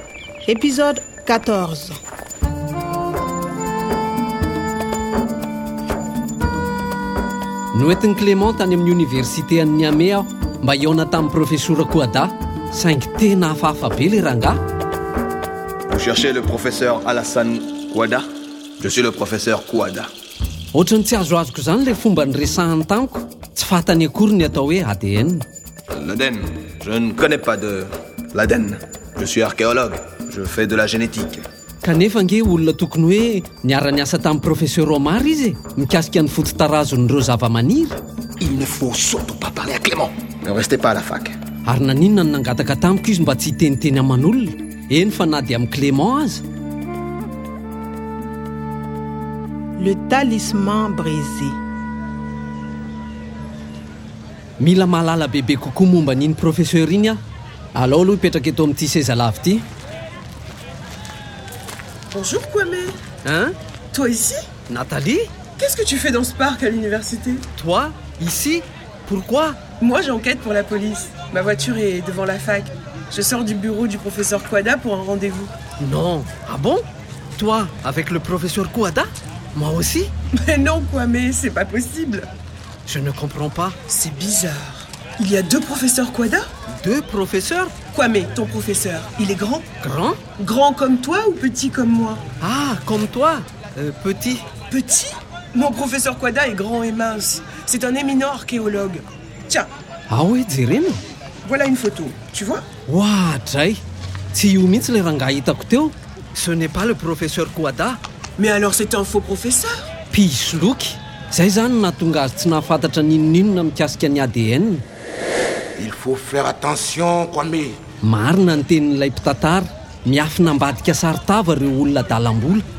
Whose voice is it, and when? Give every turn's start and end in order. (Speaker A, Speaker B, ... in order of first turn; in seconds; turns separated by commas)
Speaker A: 0.5-2.0, Speaker B: 7.7-14.6, Speaker C: 15.9-18.3, Speaker C: 18.8-20.1, Speaker B: 20.7-25.4, Speaker C: 25.9-31.5, Speaker B: 31.8-38.0, Speaker C: 38.4-41.4, Speaker B: 41.6-46.4, Speaker A: 49.8-51.5, Speaker B: 54.6-57.2, Speaker B: 57.7-59.6, Speaker D: 62.1-63.0, Speaker B: 63.2-63.5, Speaker D: 63.9-64.5, Speaker B: 64.7-65.3, Speaker D: 65.5-67.4, Speaker B: 67.6-69.6, Speaker D: 69.8-75.5, Speaker B: 75.8-76.8, Speaker B: 77.3-80.1, Speaker D: 80.3-82.3, Speaker B: 82.8-83.8, Speaker D: 83.9-86.5, Speaker B: 86.7-87.7, Speaker D: 87.9-89.7, Speaker B: 89.8-90.2, Speaker D: 90.3-92.2, Speaker B: 92.4-94.5, Speaker D: 94.7-99.7, Speaker B: 100.1-101.0, Speaker D: 101.4-102.7, Speaker B: 102.9-103.8, Speaker B: 104.3-108.0, Speaker D: 108.4-109.9, Speaker B: 110.1-114.8, Speaker E: 115.8-117.8, Speaker B: 118.0-122.7